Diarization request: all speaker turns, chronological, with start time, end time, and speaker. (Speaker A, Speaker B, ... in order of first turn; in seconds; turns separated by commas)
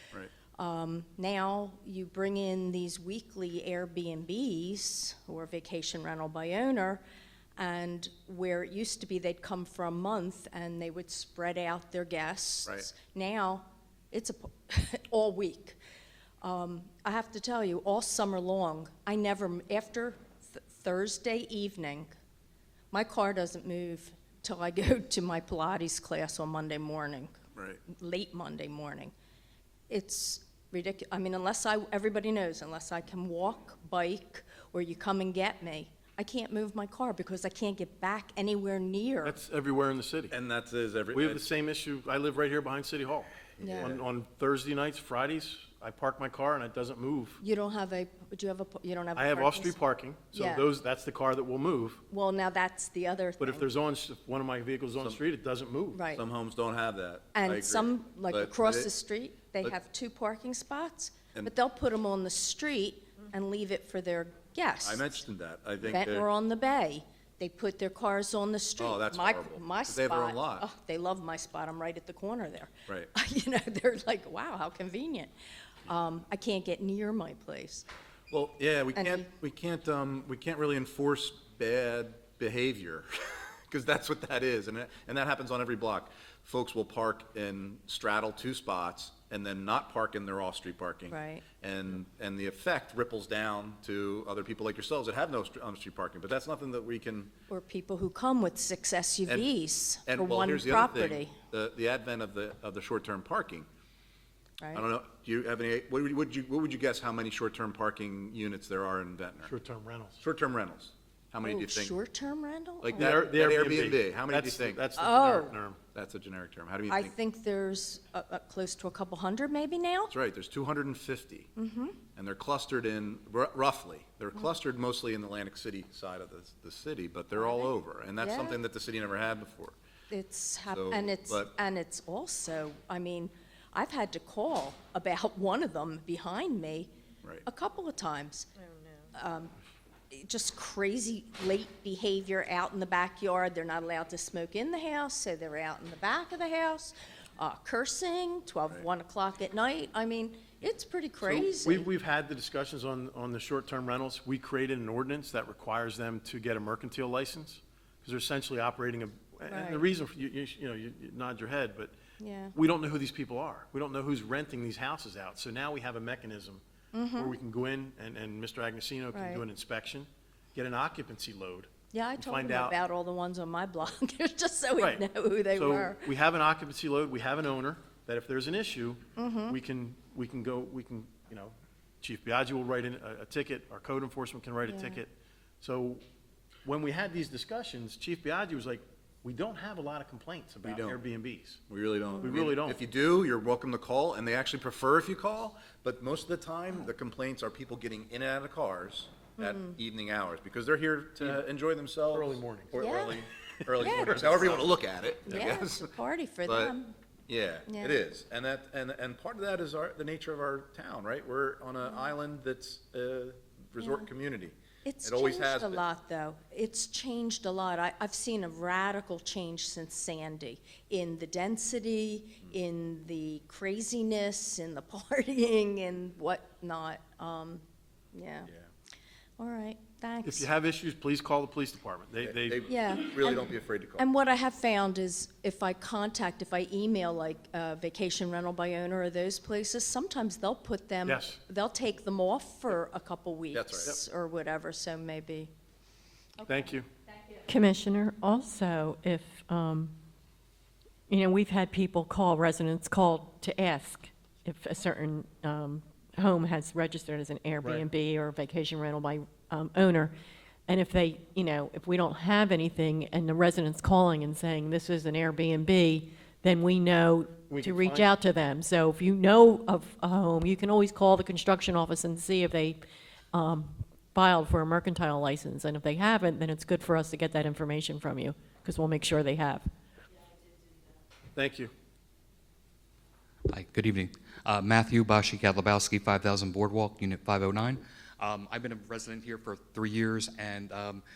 Speaker A: 0.6-7.0, Speaker A: 7.6-15.8, Speaker A: 16.4-22.1, Speaker A: 22.9-29.1, Speaker B: 27.5-27.8, Speaker A: 29.9-39.4, Speaker C: 39.2-40.3, Speaker B: 40.3-41.4, Speaker C: 41.1-43.3, Speaker B: 43.5-44.0, Speaker A: 43.6-44.0, Speaker C: 43.8-47.4, Speaker A: 47.4-49.8, Speaker C: 49.1-52.0, Speaker A: 50.3-50.6, Speaker A: 52.1-53.7, Speaker C: 53.4-56.0, Speaker B: 55.0-55.2, Speaker A: 55.9-56.2, Speaker B: 56.1-58.9, Speaker A: 57.3-65.2, Speaker B: 64.8-66.3, Speaker A: 65.9-75.3, Speaker B: 68.8-70.7, Speaker A: 75.8-77.8, Speaker B: 78.3-97.3, Speaker A: 78.9-79.3, Speaker A: 91.1-91.4, Speaker A: 97.5-101.3, Speaker B: 100.0-103.7, Speaker B: 104.7-109.5, Speaker C: 109.5-110.2, Speaker B: 110.2-112.0, Speaker A: 111.4-113.2, Speaker B: 112.8-114.8, Speaker C: 113.0-115.8, Speaker A: 115.0-115.5, Speaker B: 115.9-117.1, Speaker A: 116.9-120.1, Speaker B: 120.1-121.5, Speaker A: 121.6-122.0, Speaker B: 122.2-129.8, Speaker A: 127.4-128.6, Speaker A: 130.1-136.9, Speaker B: 130.7-131.5, Speaker A: 137.4-138.5, Speaker A: 139.1-139.5, Speaker A: 140.1-151.8, Speaker C: 151.2-161.9, Speaker A: 159.5-159.8, Speaker A: 162.2-162.5, Speaker C: 162.5-166.6, Speaker A: 166.9-167.4, Speaker C: 167.1-172.8, Speaker A: 169.1-169.4, Speaker A: 171.9-176.0, Speaker C: 174.8-186.0, Speaker A: 179.2-179.6, Speaker A: 184.7-185.0, Speaker C: 186.6-191.6, Speaker B: 190.6-191.0, Speaker B: 191.7-205.9, Speaker C: 192.2-192.8, Speaker A: 199.4-199.8, Speaker C: 202.1-202.7, Speaker A: 202.8-203.2, Speaker C: 203.7-204.6, Speaker A: 203.8-204.4, Speaker A: 205.3-206.9, Speaker B: 206.4-206.7, Speaker B: 207.3-215.8, Speaker A: 207.7-208.0, Speaker A: 213.8-214.1, Speaker A: 214.8-228.5, Speaker A: 229.4-230.5, Speaker C: 230.2-232.7, Speaker B: 232.2-234.1, Speaker A: 232.7-245.5, Speaker C: 241.0-241.4, Speaker B: 243.5-243.9, Speaker A: 246.4-247.4, Speaker C: 246.4-246.9, Speaker D: 247.5-249.9, Speaker D: 251.1-260.1, Speaker D: 260.7-272.8, Speaker C: 267.5-268.1, Speaker D: 273.3-279.7, Speaker C: 281.4-281.7, Speaker E: 283.5-291.0